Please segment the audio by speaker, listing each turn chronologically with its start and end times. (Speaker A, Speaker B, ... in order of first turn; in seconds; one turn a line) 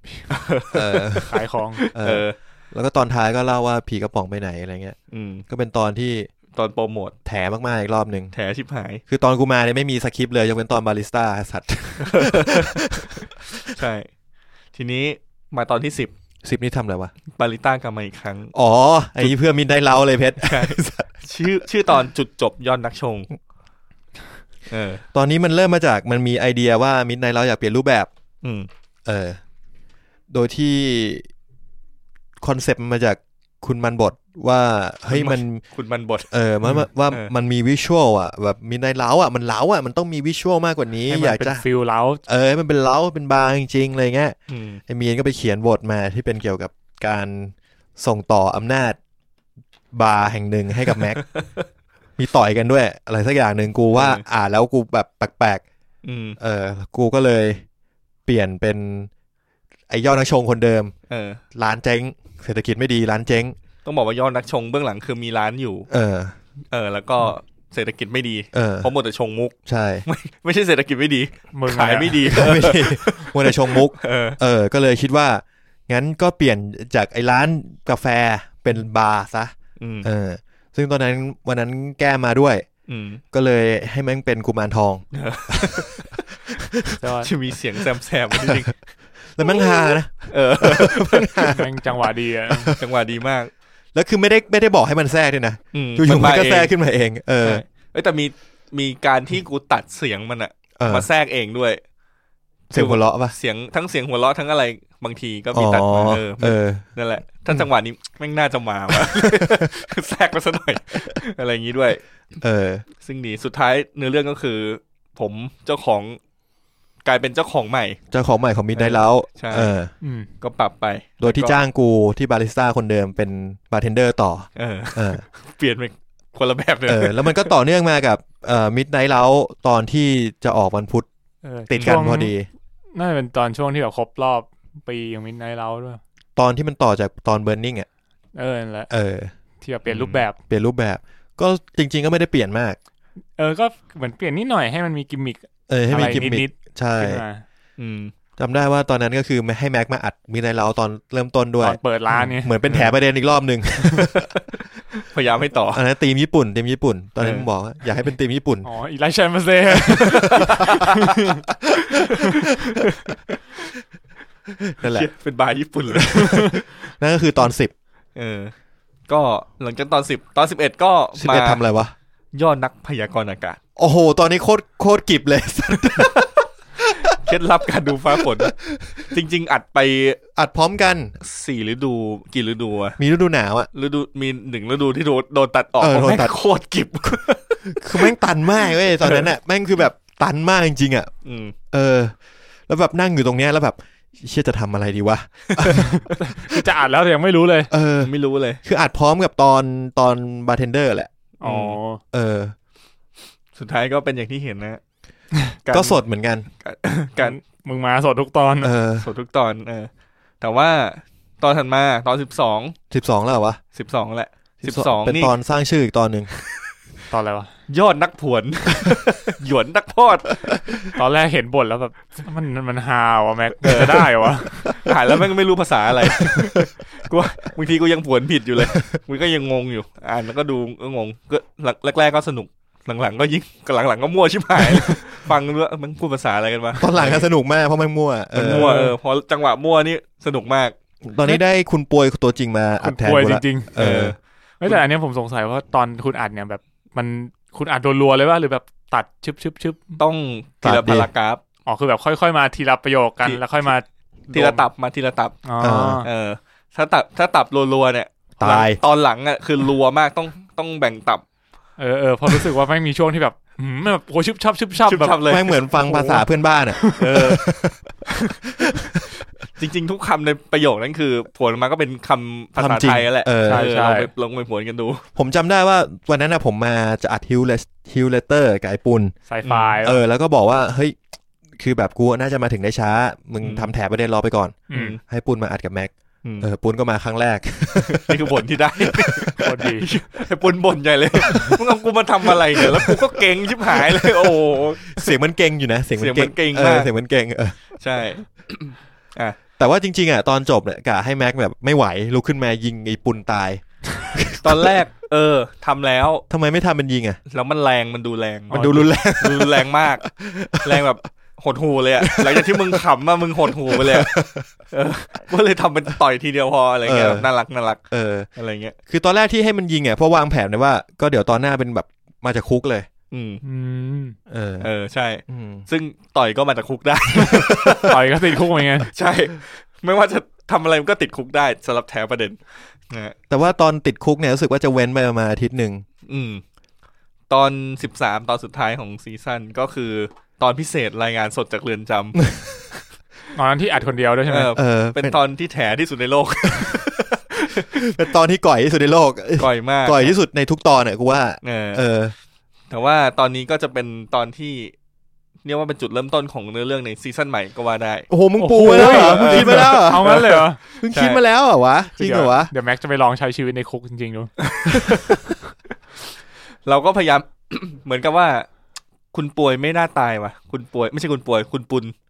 Speaker A: 0.3-2.4
Speaker B: 0.7-1.4
Speaker C: 1.3-1.8
Speaker B: 1.9-5.0
Speaker A: 5.1-5.5
Speaker B: 5.5-6.3
Speaker A: 6.5-7.2
Speaker B: 7.3-8.3
Speaker A: 8.3-9.0
Speaker B: 9.1-13.3
Speaker A: 12.0-14.1
Speaker A: 14.7-16.1
Speaker B: 16.4-17.1
Speaker A: 17.4-18.5
Speaker B: 18.5-21.1
Speaker A: 20.4-23.3
Speaker A: 24.7-25.0
Speaker B: 25.1-28.1
Speaker A: 28.4-28.7
Speaker B: 29.1-29.4
Speaker B: 30.3-31.3
Speaker B: 32.4-35.6
Speaker A: 35.1-36.3
Speaker B: 36.3-41.6
Speaker C: 41.1-42.2
Speaker B: 42.3-44.4
Speaker A: 44.5-44.8
Speaker B: 44.9-49.0
Speaker B: 49.9-51.2
Speaker A: 51.2-51.6
Speaker B: 52.2-55.6
Speaker A: 53.9-54.2
Speaker A: 56.0-56.4
Speaker B: 56.4-57.6
Speaker B: 58.3-59.1
Speaker B: 59.9-60.9
Speaker A: 61.1-61.4
Speaker B: 61.5-63.5
Speaker A: 63.9-65.9
Speaker B: 65.9-66.4
Speaker A: 66.7-69.5
Speaker B: 68.5-68.9
Speaker B: 69.7-70.0
Speaker A: 70.1-74.4
Speaker C: 71.5-72.5
Speaker B: 72.3-82.7
Speaker A: 79.8-80.1
Speaker A: 82.9-83.2
Speaker B: 83.3-87.0
Speaker A: 85.1-86.6
Speaker C: 87.0-87.3
Speaker A: 87.2-88.8
Speaker B: 88.3-88.7
Speaker B: 89.4-91.8
Speaker A: 89.4-91.5
Speaker C: 91.5-92.7
Speaker B: 92.5-92.9
Speaker A: 92.8-93.5
Speaker B: 94.0-97.6
Speaker A: 95.7-96.7
Speaker A: 97.4-101.8
Speaker B: 100.8-101.1
Speaker B: 102.7-103.3
Speaker A: 102.7-112.0
Speaker B: 105.5-106.9
Speaker B: 108.9-109.7
Speaker B: 112.4-112.8
Speaker A: 113.0-116.2
Speaker A: 117.0-118.0
Speaker B: 118.1-119.9
Speaker A: 118.8-119.7
Speaker C: 120.0-120.3
Speaker A: 120.4-121.6
Speaker B: 121.2-125.2
Speaker A: 124.6-127.5
Speaker B: 126.9-131.1
Speaker C: 131.4-132.3
Speaker B: 131.7-132.5
Speaker C: 132.9-136.0
Speaker B: 136.4-137.9
Speaker C: 138.4-138.9
Speaker B: 138.9-139.3
Speaker C: 139.6-140.4
Speaker A: 139.9-140.2
Speaker B: 140.5-142.8
Speaker C: 143.4-147.4
Speaker B: 145.7-147.2
Speaker A: 147.8-148.1
Speaker B: 148.4-154.3
Speaker C: 151.6-152.5
Speaker A: 152.7-153.0
Speaker A: 154.1-155.8
Speaker B: 155.7-158.7
Speaker A: 157.2-157.5
Speaker C: 158.7-161.4
Speaker B: 159.7-160.9
Speaker A: 160.1-161.1
Speaker B: 161.7-162.4
Speaker A: 161.9-163.7
Speaker C: 162.2-162.5
Speaker B: 164.6-165.1
Speaker A: 164.8-166.6
Speaker B: 165.9-167.7
Speaker C: 166.1-166.6
Speaker A: 168.2-168.5
Speaker A: 169.1-171.6
Speaker B: 171.2-171.9
Speaker A: 172.3-173.6
Speaker B: 173.8-176.2
Speaker A: 175.8-176.4
Speaker B: 176.8-177.2
Speaker A: 177.0-178.5
Speaker B: 178.2-179.2
Speaker A: 179.1-180.2
Speaker B: 180.3-181.1
Speaker A: 181.2-183.0
Speaker B: 183.0-183.7
Speaker A: 183.7-188.1
Speaker B: 185.8-186.3
Speaker B: 187.7-191.1
Speaker A: 188.7-189.3
Speaker A: 191.2-191.6
Speaker B: 191.7-192.2
Speaker B: 192.7-196.0
Speaker C: 195.7-197.7
Speaker B: 197.7-198.1
Speaker A: 198.0-198.6
Speaker B: 198.6-201.1
Speaker C: 201.4-202.0
Speaker A: 201.4-201.8
Speaker B: 202.1-202.5
Speaker A: 203.6-204.8
Speaker A: 205.6-206.0
Speaker B: 205.7-206.5
Speaker A: 206.6-207.4
Speaker C: 207.2-208.7
Speaker B: 208.6-209.1
Speaker A: 209.0-209.9
Speaker A: 210.4-212.8
Speaker B: 212.9-213.6
Speaker A: 213.7-215.3
Speaker B: 214.6-216.3
Speaker C: 217.1-217.5
Speaker A: 217.7-220.6
Speaker C: 221.0-224.8
Speaker A: 223.6-237.3
Speaker B: 228.6-228.8
Speaker B: 236.8-238.8
Speaker A: 238.3-240.8
Speaker C: 238.5-238.9
Speaker B: 241.1-244.2
Speaker C: 242.8-243.8
Speaker A: 243.8-244.8
Speaker C: 244.6-250.0
Speaker A: 250.0-251.4
Speaker B: 250.6-251.1
Speaker C: 251.7-254.6
Speaker A: 254.3-255.4
Speaker C: 255.4-256.1
Speaker B: 255.6-256.1
Speaker A: 256.0-261.2
Speaker B: 258.4-258.8
Speaker C: 261.8-265.2
Speaker A: 264.9-265.5
Speaker B: 265.2-267.8
Speaker C: 265.7-266.2
Speaker C: 266.8-267.4
Speaker A: 267.0-267.6
Speaker B: 268.4-269.1
Speaker A: 269.6-275.1
Speaker B: 272.6-273.7
Speaker C: 273.4-274.1
Speaker B: 275.2-279.1
Speaker C: 279.3-280.0
Speaker A: 279.4-279.8
Speaker B: 279.8-281.0
Speaker B: 281.6-288.2
Speaker A: 283.4-283.7
Speaker C: 284.7-284.9
Speaker A: 284.7-285.0
Speaker A: 287.8-295.2
Speaker B: 288.8-289.3
Speaker C: 289.4-289.9
Speaker B: 291.3-291.6
Speaker B: 292.5-297.6
Speaker A: 296.0-296.9
Speaker A: 297.8-299.4
Speaker B: 299.6-304.8
Speaker A: 304.4-306.2
Speaker B: 306.3-307.2
Speaker A: 307.3-310.1
Speaker C: 308.5-308.9
Speaker B: 308.5-311.0
Speaker A: 310.6-317.8
Speaker B: 312.0-312.8
Speaker B: 313.7-314.4
Speaker B: 316.9-317.3
Speaker B: 317.9-318.3
Speaker A: 318.4-318.8
Speaker B: 318.9-322.9
Speaker A: 323.1-323.4
Speaker C: 323.4-324.2
Speaker B: 324.3-324.7
Speaker A: 324.6-328.0
Speaker B: 325.3-325.7
Speaker C: 327.2-328.9
Speaker B: 327.2-327.7
Speaker A: 328.9-333.2
Speaker B: 333.3-335.9
Speaker A: 336.1-336.4
Speaker A: 337.3-342.2
Speaker B: 342.2-342.7
Speaker C: 343.4-344.5
Speaker A: 344.3-347.9
Speaker B: 344.6-345.2
Speaker B: 346.5-352.1
Speaker A: 349.4-350.2
Speaker A: 351.4-351.8
Speaker A: 352.7-354.8
Speaker A: 355.4-358.1
Speaker B: 358.1-362.5
Speaker C: 358.4-360.6
Speaker A: 358.6-361.2
Speaker C: 362.0-364.3
Speaker A: 364.4-365.3
Speaker A: 366.6-368.5
Speaker A: 369.1-371.9